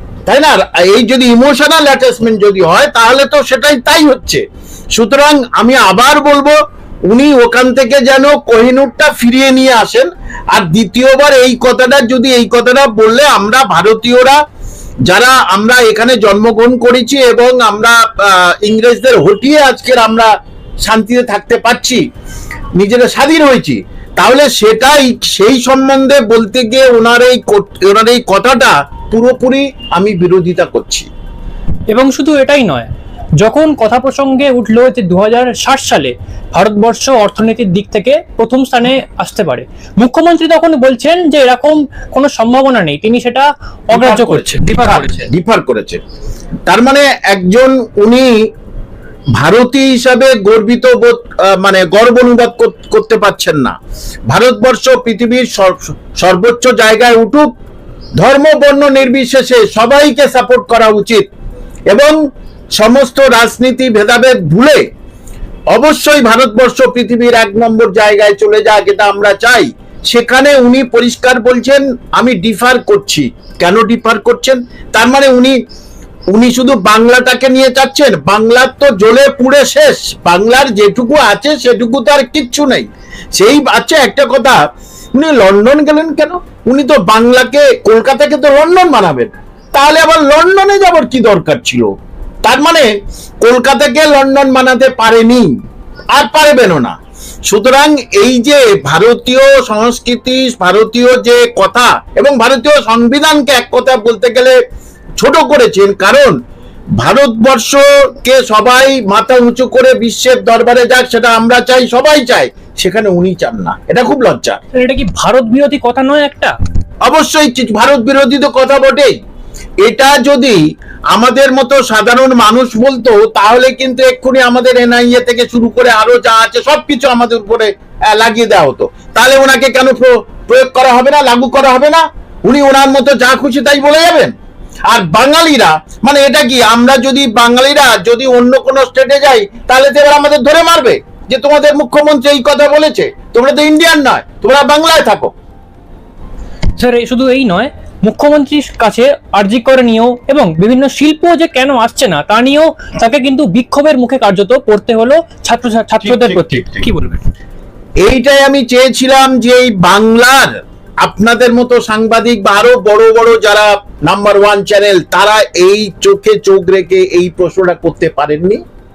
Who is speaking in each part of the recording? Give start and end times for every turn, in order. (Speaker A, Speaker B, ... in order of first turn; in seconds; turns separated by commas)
Speaker A: 0.3-14.4, Speaker A: 15.1-20.3, Speaker A: 20.8-22.0, Speaker A: 22.8-31.1, Speaker B: 31.9-45.3, Speaker A: 43.9-46.0, Speaker A: 46.7-48.4, Speaker A: 49.4-53.8, Speaker A: 54.3-57.5, Speaker A: 58.2-61.3, Speaker A: 61.9-62.2, Speaker A: 62.8-64.8, Speaker A: 65.7-75.6, Speaker A: 76.3-84.6, Speaker A: 85.2-91.9, Speaker A: 92.4-95.5, Speaker A: 96.1-97.0, Speaker A: 97.5-104.6, Speaker A: 105.2-106.4, Speaker A: 107.0-114.6, Speaker B: 114.7-116.6, Speaker A: 117.0-119.2, Speaker A: 119.8-120.6, Speaker A: 121.1-134.3, Speaker A: 134.9-145.3, Speaker B: 146.8-157.2, Speaker A: 156.0-156.8, Speaker A: 158.0-168.6